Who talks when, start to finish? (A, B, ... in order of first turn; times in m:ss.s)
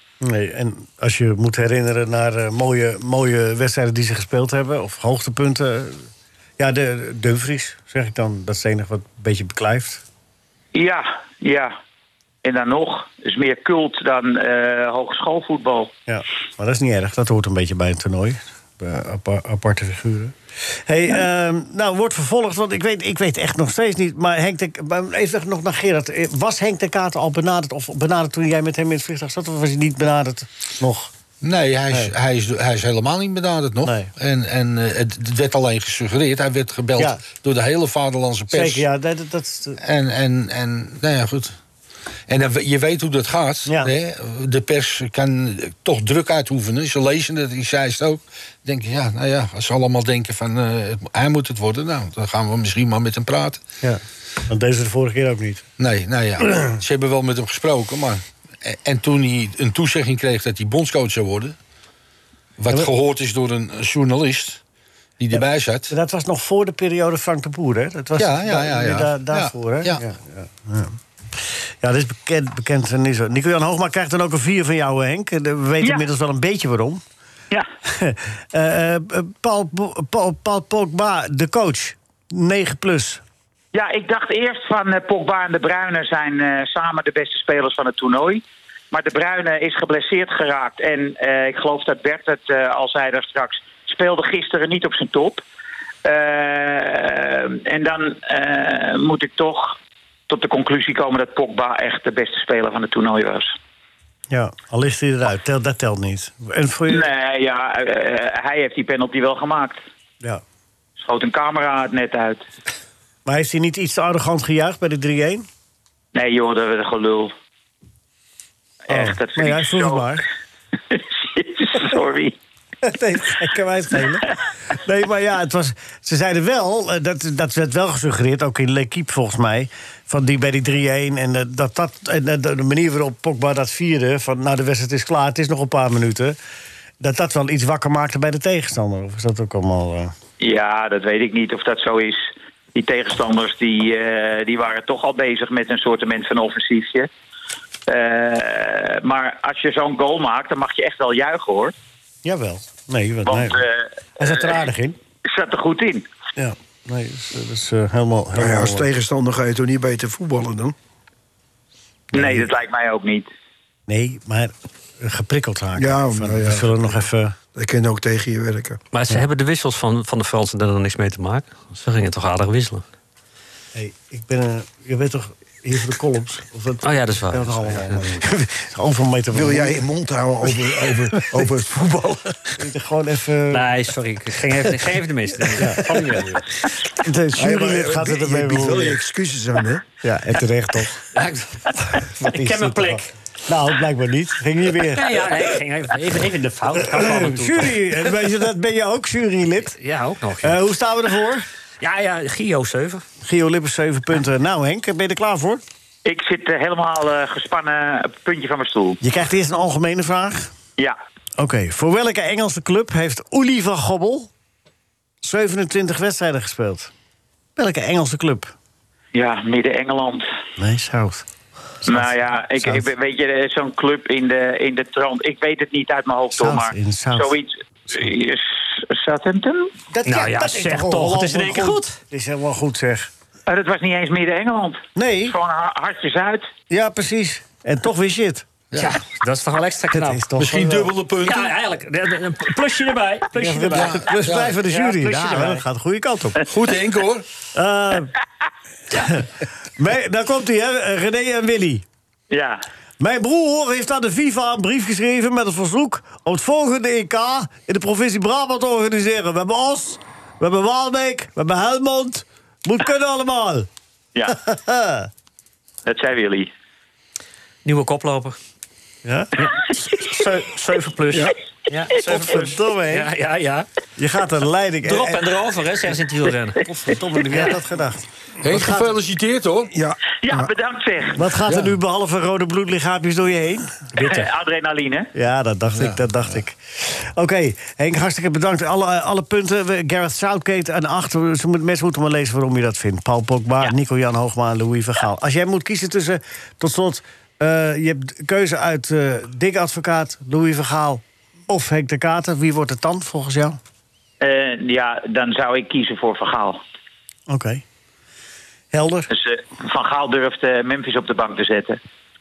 0:00.2-0:06.1 A
0:06.6-0:10.0 A
0:10.7-0:11.8 B
0:12.4-0:15.9 B
0:16.1-0:31.1 A
0:31.4-0:38.8 C
0:33.8-0:34.1 A
0:37.0-0:37.2 A
0:38.5-0:39.8 A
0:39.8-0:41.6 C
0:42.3-0:53.6 C
0:43.7-0:43.9 A
0:53.8-0:55.6 A
0:55.8-1:01.6 C
1:02.6-1:04.6 C
1:05.2-1:05.9 C
1:05.3-1:17.0 A
1:08.2-1:10.0 C
1:15.8-1:16.0 B
1:17.9-1:23.2 A
1:23.7-1:35.4 B
1:36.0-1:39.8 B
1:40.3-1:43.5 B
1:44.3-1:47.1 A
1:46.9-1:49.8 B
1:51.0-1:52.5 B
1:53.3-1:55.5 A
1:56.2-1:57.3 B
1:58.9-2:00.2 B
1:58.9-2:00.2 A
2:00.9-2:02.4 B
2:02.8-2:16.4 A
2:17.0-2:20.1 A
2:20.4-2:27.1 B
2:27.9-2:31.7 B
2:32.2-2:33.6 A
2:33.3-2:34.5 B
2:34.2-2:35.0 A
2:35.3-2:36.1 B
2:36.4-2:38.9 A
2:38.4-2:40.8 D
2:42.1-2:43.3 B
2:42.2-2:42.4 A
2:43.9-2:47.4 A
2:45.8-2:46.9 D
2:47.6-2:48.8 D
2:48.9-2:52.8 E
2:53.8-2:59.8 A
2:56.8-2:58.2 E
2:59.3-3:02.5 D
3:01.2-3:01.4 A
3:02.6-3:03.7 A
3:03.5-3:06.5 E
3:05.6-3:05.9 A
3:06.9-3:09.0 A
3:07.4-3:09.8 D
3:10.0-3:11.0 A
3:11.1-3:13.0 E
3:12.2-3:15.2 A
3:14.8-3:18.2 E
3:16.9-3:19.8 A
3:19.7-3:20.6 E
3:20.4-3:21.5 A
3:21.8-3:23.0 E
3:23.2-3:25.6 A
3:26.0-3:29.0 B
3:29.0-3:30.5 A
3:31.4-3:34.3 A
3:35.2-3:36.9 A
3:37.6-3:38.5 A
3:39.1-3:40.3 B
3:40.6-3:41.3 A
3:41.8-3:42.9 A
3:41.9-3:49.7 B
3:46.3-3:47.4 A
3:49.9-3:53.1 A
3:50.0-3:52.0 E
3:53.5-3:56.5 B
3:55.0-3:55.4 A
3:56.7-3:58.5 A
3:58.7-3:59.0 C
3:58.7-4:00.3 E
3:59.9-4:00.9 A
4:00.4-4:01.5 C
4:01.2-4:04.0 E
4:03.3-4:06.4 A
4:03.7-4:04.6 C
4:04.7-4:05.6 E
4:06.5-4:07.3 C
4:07.5-4:08.1 A
4:08.9-4:11.8 A
4:12.3-4:12.6 B
4:13.0-4:23.7 A
4:24.3-4:25.1 A
4:25.9-4:26.5 B
4:27.6-4:28.4 E
4:29.0-4:30.4 A
4:30.1-4:33.7 E
4:31.8-4:33.1 A
4:34.0-4:35.2 A
4:34.8-4:36.6 E
4:36.6-4:38.9 A
4:38.4-4:39.7 C
4:39.7-4:40.5 D
4:40.2-4:41.3 B
4:41.2-4:44.3 A
4:44.0-4:45.1 B
4:45.1-5:03.6 A
4:45.8-4:46.0 C
5:04.2-5:06.6 B
5:07.3-5:07.6 A
5:08.7-5:09.1 A
5:09.1-5:11.8 B